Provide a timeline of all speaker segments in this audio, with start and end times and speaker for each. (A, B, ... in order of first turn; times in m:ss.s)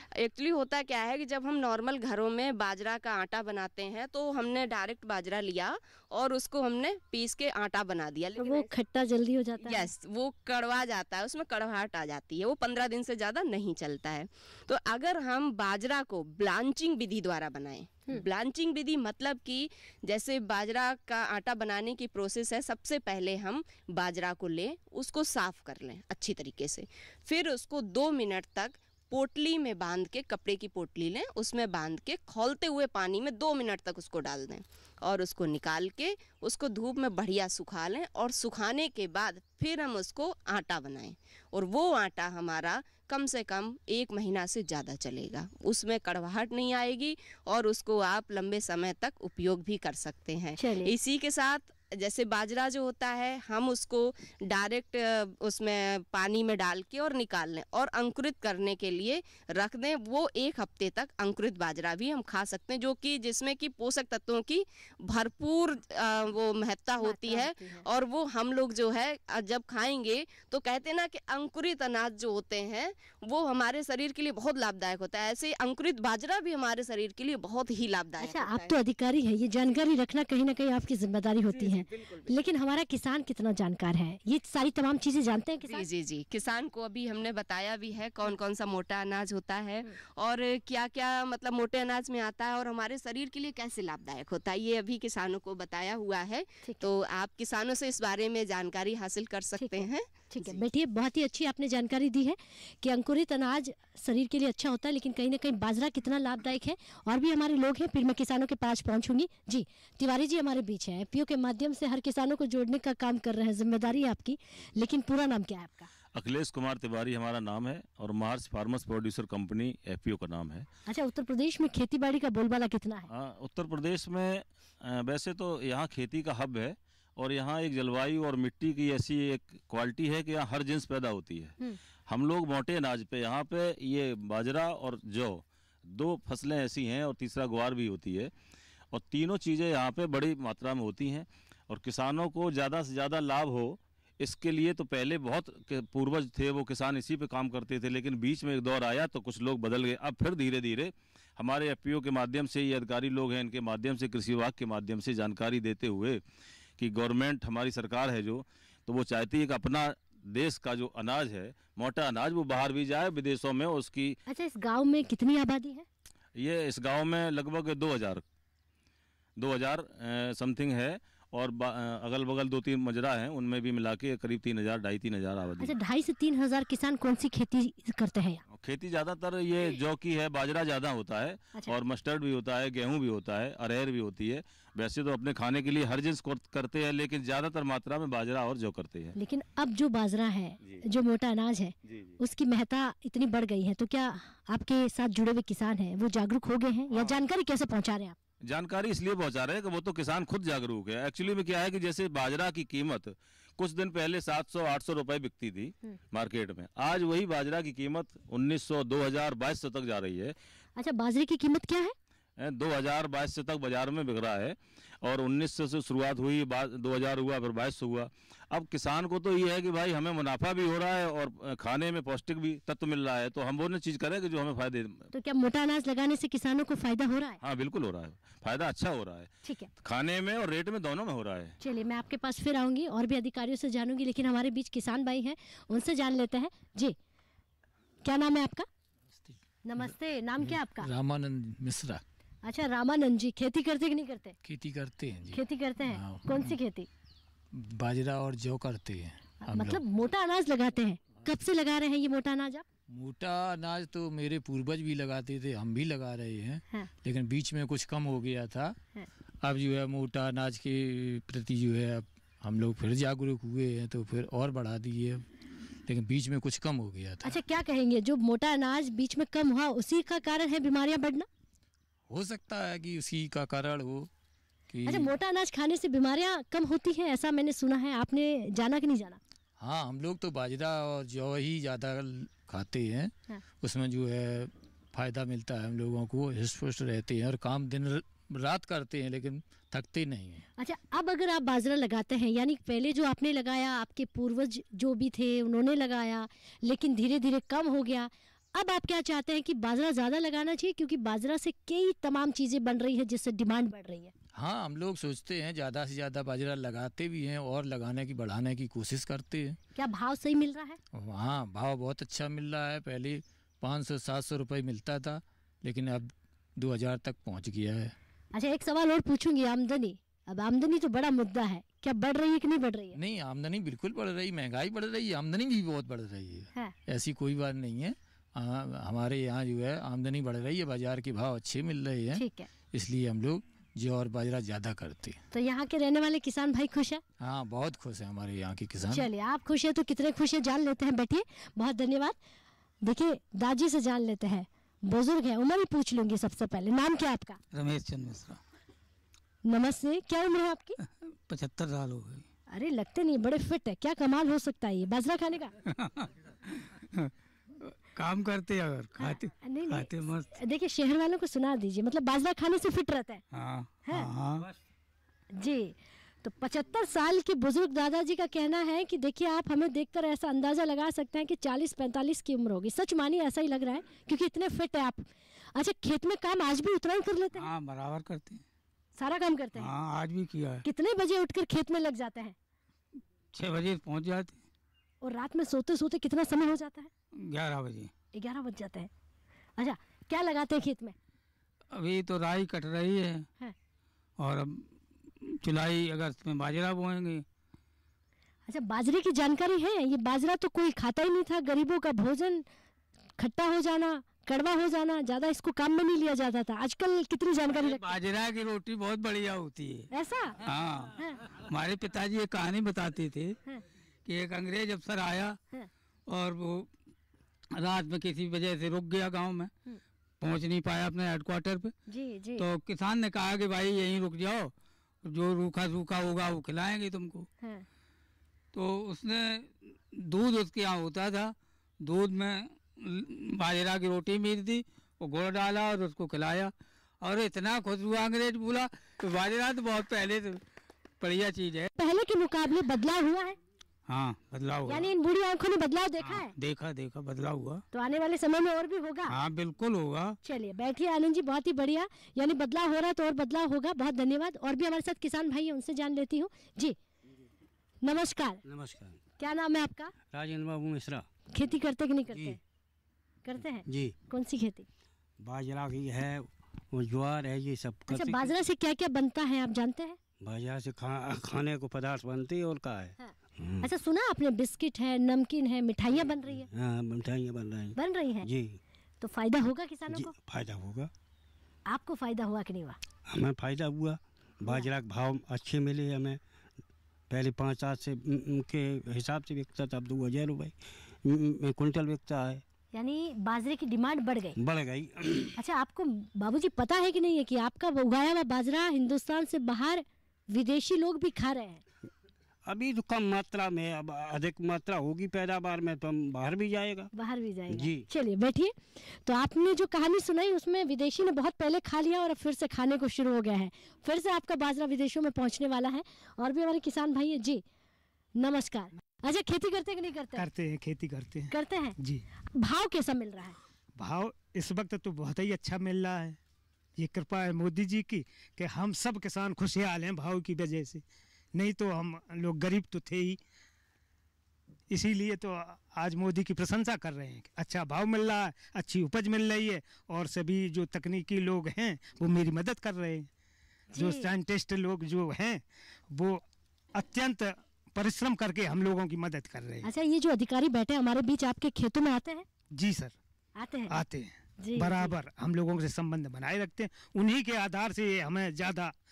0:00.2-0:08.7 A
0:08.4-0:09.9 B
0:09.6-1:18.7 A
0:50.6-0:50.9 B
1:07.0-1:07.8 B
1:18.2-1:25.9 B
1:21.5-1:22.3 A
1:25.6-1:40.6 A
1:39.6-1:55.9 B
1:56.2-2:00.7 C
2:00.9-2:03.1 B
2:03.1-2:11.6 C
2:12.1-2:18.3 C
2:18.9-2:36.2 C
2:36.8-2:44.2 C
2:44.3-2:45.9 B
2:46.4-2:48.2 C
2:49.4-2:55.8 C
2:55.6-2:58.4 B
2:58.5-3:09.2 C
3:09.2-3:18.2 B
3:18.4-3:30.4 C
3:30.8-3:32.0 B
3:32.4-3:45.1 C
3:45.1-3:47.4 B
3:47.4-3:49.3 C
3:49.4-3:49.7 B
3:49.8-3:51.6 C
3:51.6-3:57.0 B
3:58.0-3:58.7 B
3:59.7-4:00.9 B
4:00.4-4:02.0 D
4:02.4-4:04.4 B
4:04.4-4:06.6 D
4:05.3-4:06.9 B
4:07.5-4:09.8 D
4:09.4-4:12.6 B
4:12.9-4:18.8 D
4:19.4-4:25.2 D
4:25.9-4:27.4 D
4:27.2-4:31.3 B
4:32.1-4:34.1 D
4:34.7-4:35.1 D
4:34.9-4:39.2 B
4:39.6-4:50.4 D
4:50.6-5:04.1 B
5:04.3-5:09.6 D
5:09.8-5:10.8 B
5:10.9-5:17.9 D
5:18.3-5:23.0 B
5:23.0-5:35.2 D
5:32.2-5:32.5 B
5:35.3-5:37.0 B
5:37.2-5:39.1 D
5:38.9-5:42.2 B
5:42.8-5:47.4 B
5:47.5-5:48.4 E
5:49.4-5:50.8 B
5:50.9-5:52.3 E
5:52.5-5:55.5 B
5:55.7-5:56.1 E
5:56.6-5:57.1 E
5:57.6-6:00.3 E
5:59.0-6:03.2 B
6:03.3-6:04.5 E
6:05.4-6:17.5 B
6:17.4-6:18.4 E
6:19.0-6:19.7 B
6:19.6-6:20.6 E
6:20.6-6:22.4 B
6:23.3-6:24.4 E
6:25.0-6:26.9 B
6:27.2-6:27.9 E
6:28.2-6:28.9 B
6:29.6-6:31.0 B
6:31.7-6:33.3 E
6:34.2-6:34.7 E
6:35.2-6:37.2 E
6:38.5-6:42.4 B
6:43.2-6:47.9 B
6:47.5-6:49.9 E
6:49.9-6:50.4 B
6:50.4-6:53.4 E
6:54.0-6:55.4 E
6:56.1-6:56.7 E
6:57.6-6:59.5 E
7:00.2-7:01.7 E
7:01.9-7:02.5 B
7:02.4-7:04.5 E
7:05.0-7:07.3 E
7:07.4-7:07.7 B
7:08.5-7:20.4 E
7:21.0-7:21.7 E
7:21.8-7:23.4 B
7:23.9-7:24.9 E
7:24.7-7:26.3 B
7:26.0-7:27.6 E
7:27.7-7:29.2 B
7:29.1-7:30.2 E
7:30.2-7:36.8 B
7:37.8-7:38.4 B
7:38.4-7:39.0 F
7:39.2-7:39.9 B
7:40.1-7:41.1 F
7:41.3-7:42.4 B
7:42.1-7:42.4 F
7:43.2-7:44.7 B
7:43.6-7:44.0 F
7:45.2-7:48.4 F
7:47.9-7:50.0 B
7:50.2-7:53.7 F
7:53.0-7:56.5 B
7:56.4-7:58.6 F
7:57.8-7:58.3 B
7:59.0-8:00.2 B
7:59.9-8:00.9 F
8:01.7-8:02.8 B
8:03.1-8:06.2 F
8:07.1-8:12.4 F
8:12.7-8:14.4 B
8:14.4-8:15.4 F
8:15.4-8:21.6 B
8:22.5-8:26.9 F
8:26.9-8:37.4 B
8:27.5-8:27.9 F
8:38.2-8:40.3 B
8:40.2-8:42.0 G
8:41.3-8:41.8 B
8:42.4-8:43.4 B
8:43.8-8:46.2 G
8:46.8-8:50.8 G
8:51.4-8:53.2 G
8:54.7-9:03.1 G
9:03.7-9:04.1 B
9:03.8-9:06.2 G
9:06.8-9:09.7 G
9:09.6-9:12.3 B
9:12.6-9:13.0 G
9:13.4-9:13.8 B
9:13.7-9:18.7 G
9:14.4-9:14.9 B